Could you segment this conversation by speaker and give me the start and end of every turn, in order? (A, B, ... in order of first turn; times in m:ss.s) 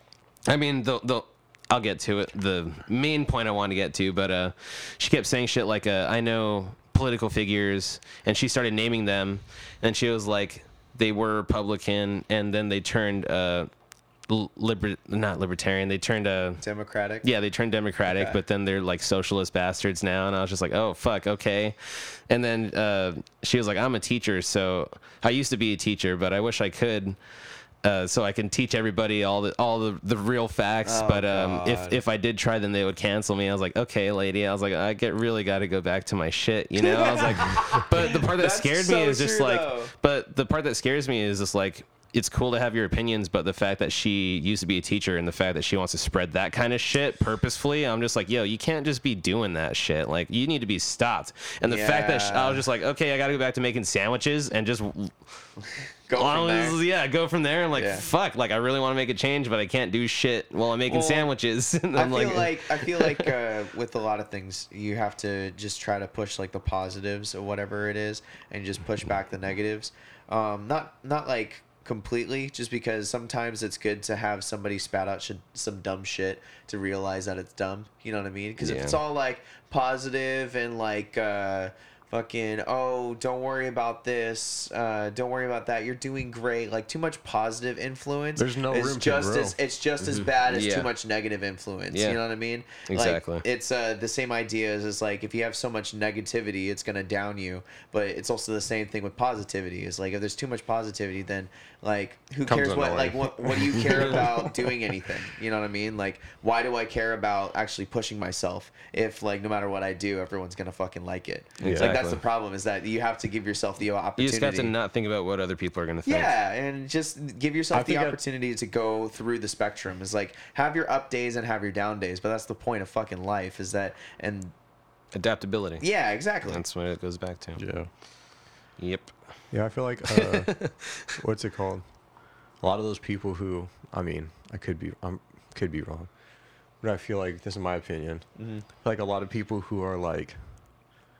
0:00.5-0:13.7 A
0:14.3-0:16.6 A
0:16.6-0:17.3 B
0:17.2-0:27.2 A
0:18.1-0:18.4 B
0:27.8-0:55.2 A
0:30.8-0:32.0 B
0:36.8-0:39.9 B
0:51.7-0:52.6 B
0:55.8-0:56.8 B
0:56.2-1:03.3 A
0:57.7-0:58.1 B
1:00.9-1:01.3 B
1:01.9-1:54.7 B
1:18.6-1:19.0 A
1:28.4-1:29.6 C
1:30.0-1:30.9 A
1:31.9-1:32.2 A
1:32.9-1:33.4 A
1:42.4-1:44.8 C
1:51.6-1:52.2 A
1:51.6-1:52.0 C
1:54.2-1:56.3 A
1:56.0-2:04.5 B
1:57.7-1:58.2 C
2:05.1-2:05.9 A
2:05.8-2:06.6 B
2:06.5-2:07.6 A
2:07.6-2:07.9 C
2:08.8-2:09.1 A
2:09.5-2:11.8 C
2:10.1-2:11.2 A
2:12.6-2:16.1 C
2:16.8-2:18.3 C
2:18.4-2:18.6 B
2:18.8-2:20.4 C